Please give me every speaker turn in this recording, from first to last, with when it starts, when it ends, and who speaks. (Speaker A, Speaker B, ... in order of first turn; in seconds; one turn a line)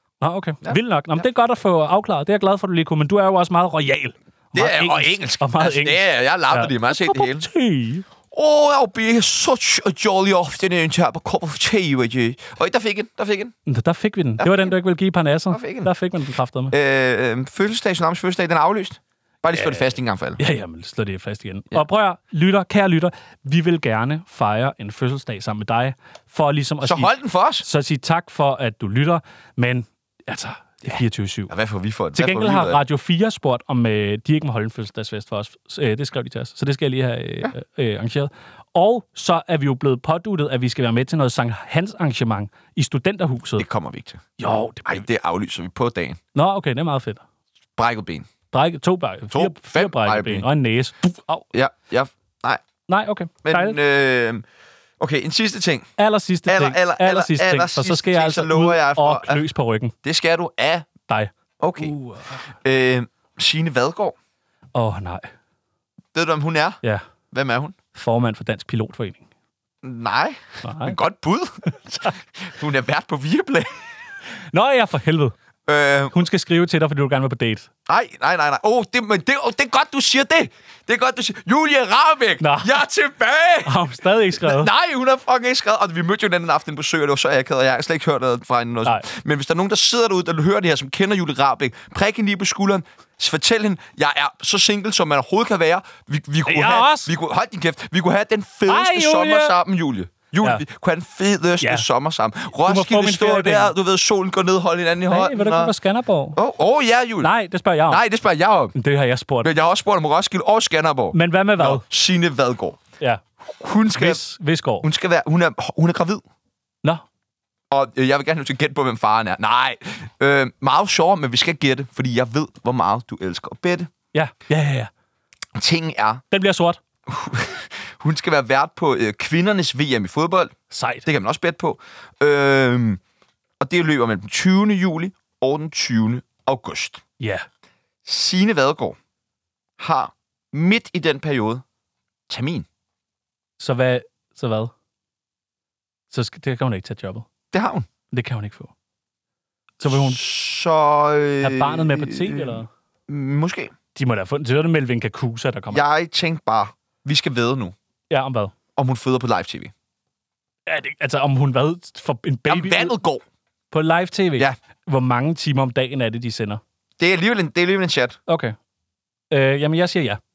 Speaker A: 0.2-8.1
Speaker B: 0.6-1.2
Speaker B: 4.5-7.5
Speaker B: 8.3-13.5
Speaker A: 13.7-16.7
Speaker B: 14.4-14.7
Speaker B: 15.5-15.9
Speaker B: 16.7-20.4
Speaker A: 19.5-31.5
Speaker B: 26.8-27.6
Speaker B: 31.5-32.8
Speaker A: 32.1-43.7
Speaker B: 43.6-44.3
Speaker A: 44.4-45.0
Speaker B: 44.8-46.2
Speaker A: 46.3-47.2
Speaker B: 47.8-48.3
Speaker A: 48.5-51.0
Speaker B: 49.3-50.5
Speaker B: 51.0-52.6
Speaker A: 52.9-53.8
Speaker B: 53.4-54.4
Speaker B: 55.0-55.9
Speaker A: 56.0-59.9
Speaker B: 56.5-59.4
Speaker B: 60.0-60.9
Speaker A: 61.1-62.4
Speaker B: 61.6-61.9
Speaker B: 62.5-64.1
Speaker A: 64.7-65.3
Speaker B: 66.1-66.8
Speaker B: 67.3-67.8
Speaker A: 67.9-69.3
Speaker B: 69.8-73.7
Speaker A: 70.6-71.0
Speaker A: 74.5-75.3
Speaker B: 75.7-76.2
Speaker A: 76.1-77.7
Speaker B: 77.9-83.8
Speaker A: 82.4-82.8
Speaker A: 83.6-84.7
Speaker B: 84.4-105.7
Speaker A: 96.5-97.1
Speaker A: 98.7-99.5
Speaker A: 102.6-103.7
Speaker A: 105.1-106.4
Speaker B: 106.3-107.3
Speaker A: 107.2-108.0
Speaker B: 107.9-108.7
Speaker A: 108.7-109.5
Speaker B: 109.4-112.8
Speaker A: 111.1-111.8
Speaker B: 113.4-114.2
Speaker A: 113.9-114.9
Speaker B: 114.8-116.2
Speaker B: 117.7-123.9
Speaker A: 124.1-124.9
Speaker B: 125.5-126.2
Speaker A: 126.3-126.8
Speaker B: 127.1-130.5
Speaker A: 130.7-131.1
Speaker B: 131.0-133.0
Speaker B: 133.6-137.0
Speaker A: 137.2-137.4
Speaker B: 138.0-139.0
Speaker B: 139.8-141.6
Speaker B: 142.3-142.7
Speaker A: 143.6-144.7
Speaker A: 146.1-147.3
Speaker B: 147.5-147.9
Speaker A: 148.1-148.7
Speaker A: 149.8-150.2
Speaker B: 149.8-153.7
Speaker A: 151.4-152.7
Speaker A: 153.9-155.8
Speaker B: 155.7-157.7
Speaker A: 158.1-158.5
Speaker B: 158.8-159.7
Speaker A: 160.7-162.9
Speaker B: 162.5-163.2
Speaker A: 163.7-166.6
Speaker B: 167.0-168.2
Speaker A: 168.3-168.5
Speaker A: 169.3-170.2